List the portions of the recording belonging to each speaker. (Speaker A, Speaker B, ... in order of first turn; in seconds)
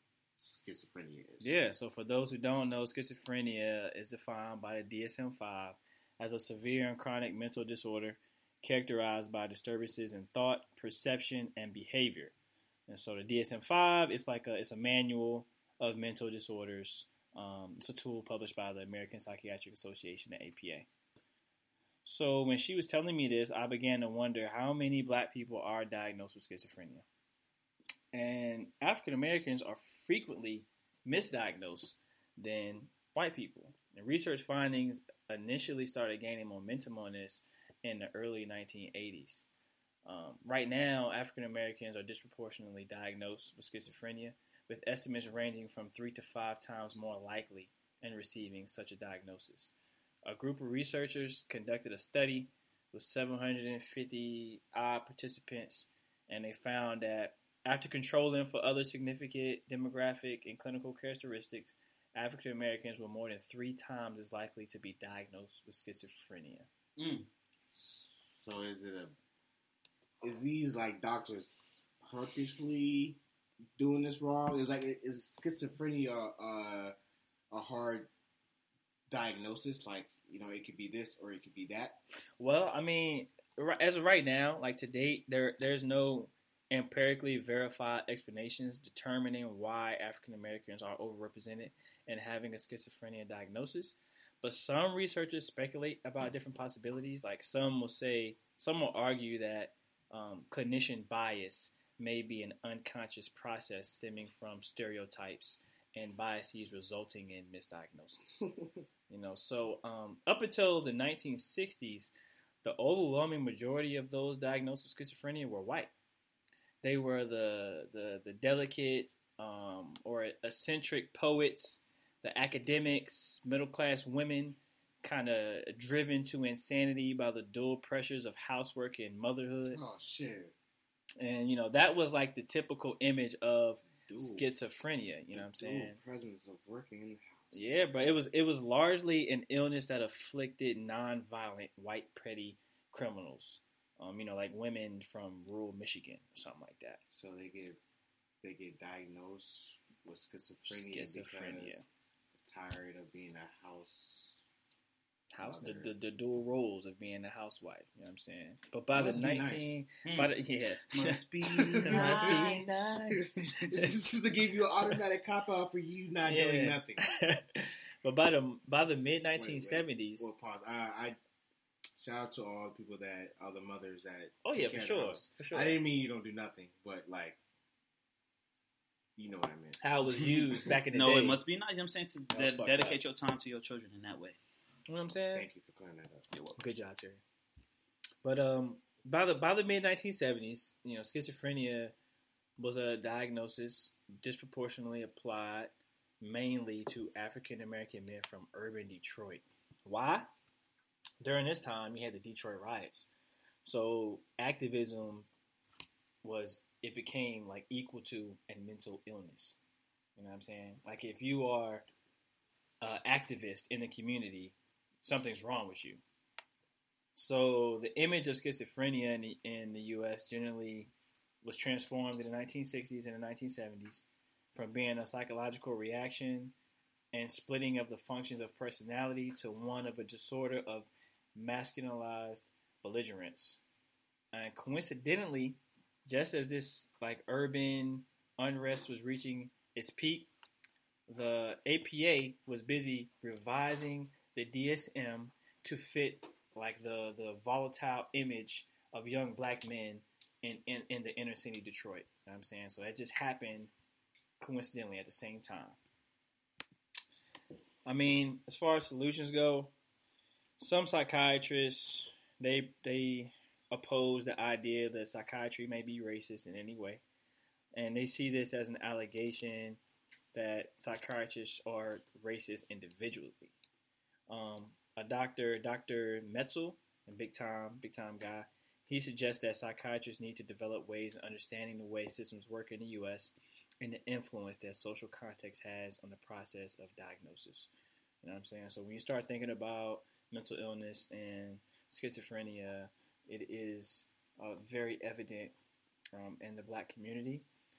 Speaker A: 0.4-1.5, 67.6-69.1, 70.2-73.2, 73.8-76.9, 77.5-78.1, 79.1-82.0, 129.7-130.5, 133.9-134.5, 135.3-137.7, 147.1-147.8, 148.4-151.8, 152.4-154.4, 155.4-155.9, 158.9-159.8, 161.7-167.1, 169.3-171.2, 172.0-177.4, 179.2-179.8, 185.3-186.3
Speaker B: 1.4-12.3, 12.9-20.9, 22.0-27.0, 28.1-39.5, 40.0-49.7, 50.2-66.7, 82.4-108.5, 109.1-115.9, 116.8-129.8, 131.2-136.0, 137.5-147.0, 150.7-151.8, 155.3-164.0, 166.2-170.3, 174.4-175.8, 179.8-181.4, 182.3-183.0, 184.9-185.5, 186.6-187.2, 188.2-191.9, 192.6-200.3, 201.2-203.1, 203.6-205.3, 206.2-209.6, 210.2-211.8, 212.8-216.0, 217.1-220.9, 221.4-226.5, 227.1-233.6, 234.3-240.3, 241.1-253.7, 254.4-255.8, 257.9-259.7, 260.6-267.0, 267.7-269.8, 270.3-273.5, 274.3-287.7, 288.2-295.5, 296.1-297.4
Speaker C: 67.0-67.3, 160.0-160.3, 160.9-162.9, 180.9-184.4, 186.3-186.6